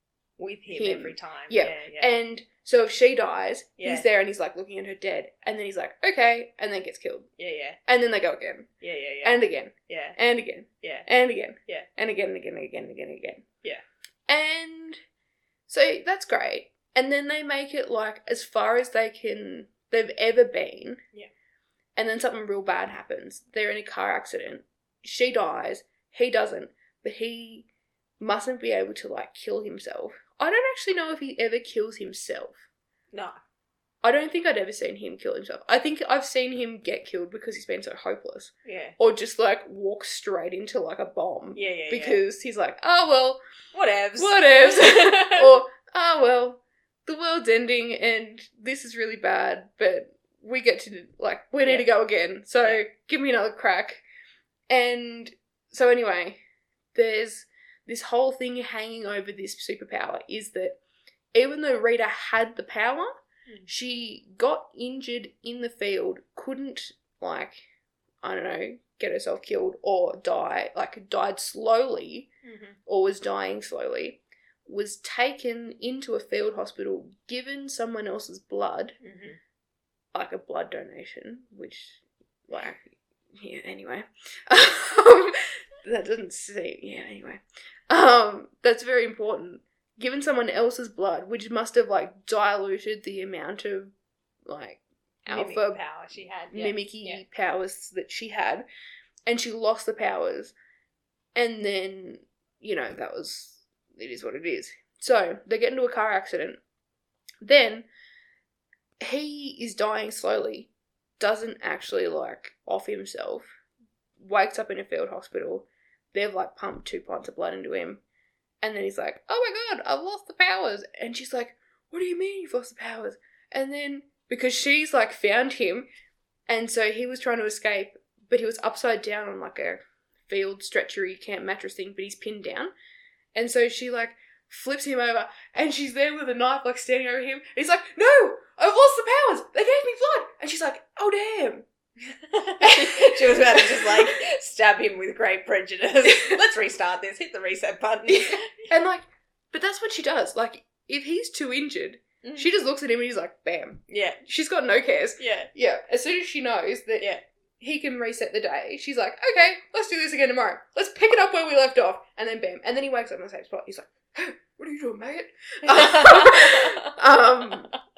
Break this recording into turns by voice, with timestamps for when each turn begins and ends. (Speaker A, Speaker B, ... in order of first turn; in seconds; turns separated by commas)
Speaker A: 0.4-2.2, Speaker B: 0.7-7.3, Speaker A: 3.8-4.1, Speaker A: 7.4-7.8, Speaker B: 7.9-8.7, Speaker A: 8.8-10.2, Speaker B: 9.2-13.4, Speaker A: 10.8-11.1, Speaker B: 14.3-15.0, Speaker B: 15.7-21.0, Speaker B: 22.0-27.7, Speaker B: 28.2-32.6, Speaker B: 34.0-43.4, Speaker A: 38.6-39.0, Speaker A: 41.5-42.2, Speaker A: 43.7-45.6, Speaker B: 44.2-54.0, Speaker B: 54.7-56.4, Speaker B: 56.9-60.8, Speaker B: 61.3-63.1, Speaker B: 63.7-67.6, Speaker B: 68.2-72.3, Speaker A: 72.4-72.8, Speaker B: 72.9-79.0, Speaker A: 79.0-79.4, Speaker B: 80.1-93.9, Speaker B: 94.5-95.8, Speaker A: 95.3-97.2, Speaker B: 96.5-98.7, Speaker B: 99.3-100.5, Speaker B: 101.3-106.6, Speaker B: 107.4-107.9, Speaker B: 109.0-113.5, Speaker B: 114.2-118.0, Speaker B: 118.6-125.9, Speaker B: 126.5-132.7, Speaker B: 133.3-141.7, Speaker A: 142.1-148.7, Speaker B: 142.6-144.2, Speaker B: 146.1-146.3, Speaker B: 148.1-167.7, Speaker A: 152.2-152.5, Speaker A: 153.9-154.2, Speaker A: 155.2-155.5, Speaker A: 165.7-167.0